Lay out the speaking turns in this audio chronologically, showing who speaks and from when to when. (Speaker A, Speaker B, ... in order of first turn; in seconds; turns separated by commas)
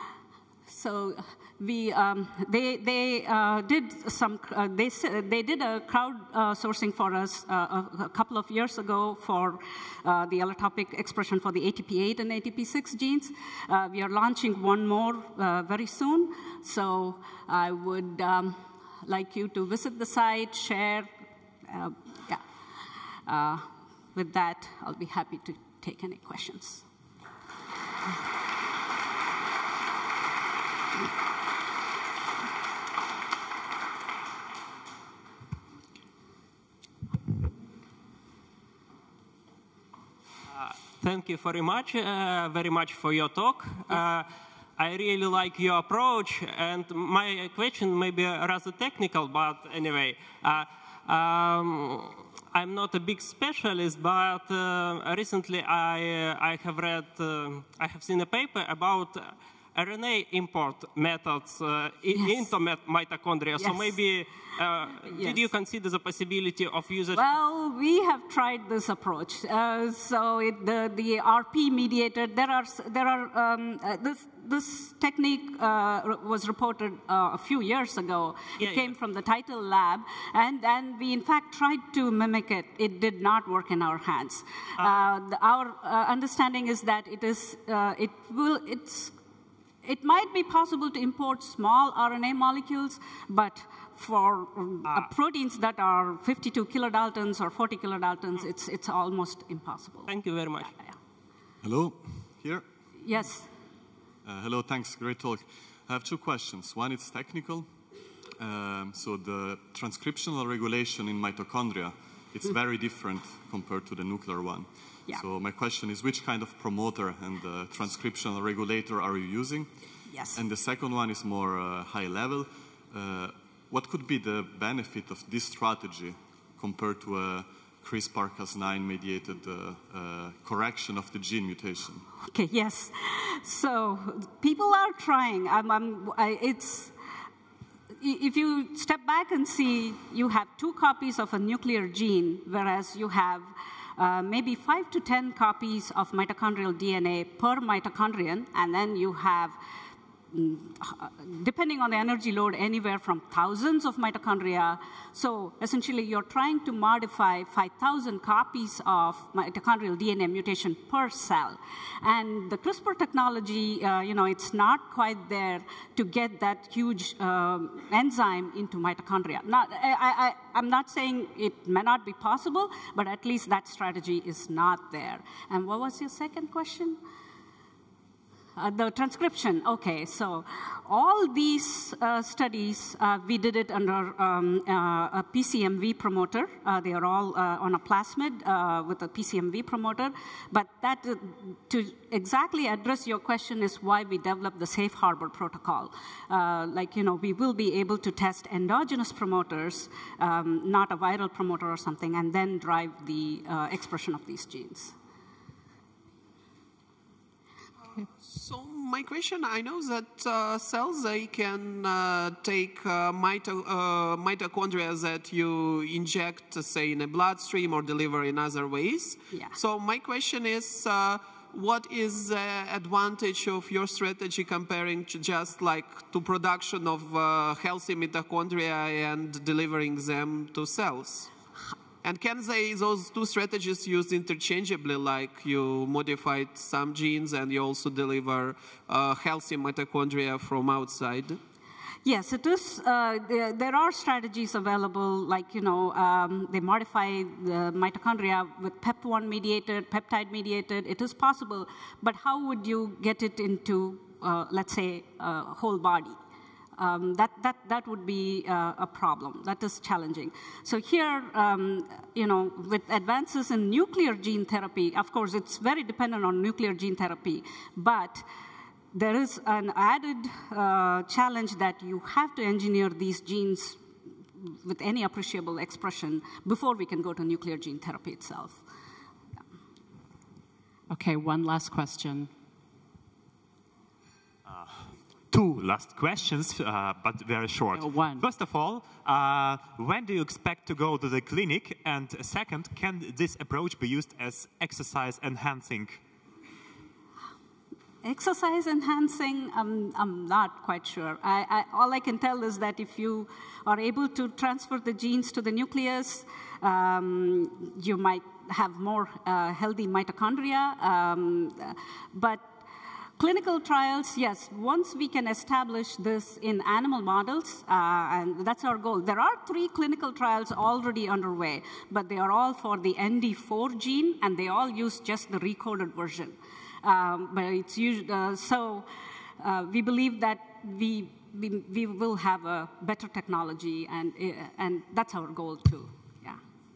Speaker A: 0.7-21.1, Speaker A: 21.6-22.4, Speaker A: 23.3-26.8, Speaker B: 40.5-67.2, Speaker A: 63.6-63.9, Speaker A: 65.1-65.4, Speaker A: 67.1-89.2, Speaker A: 89.8-100.1, Speaker B: 100.1-100.7, Speaker C: 101.6-102.7, Speaker A: 103.0-103.5, Speaker C: 104.2-107.7, Speaker C: 108.4-119.7, Speaker A: 120.1-120.4, Speaker C: 120.3-132.1, Speaker A: 132.3-136.9, Speaker A: 138.0-149.6, Speaker A: 150.3-177.0, Speaker A: 178.6-204.9, Speaker D: 208.0-231.3, Speaker D: 232.0-241.4, Speaker A: 242.1-256.2, Speaker A: 256.8-268.3, Speaker A: 268.9-273.8, Speaker A: 274.4-278.6, Speaker E: 280.9-282.3, Speaker F: 284.5-296.0, Speaker E: 287.7-288.3, Speaker A: 298.0-312.6, Speaker A: 313.2-328.9, Speaker A: 329.4-336.4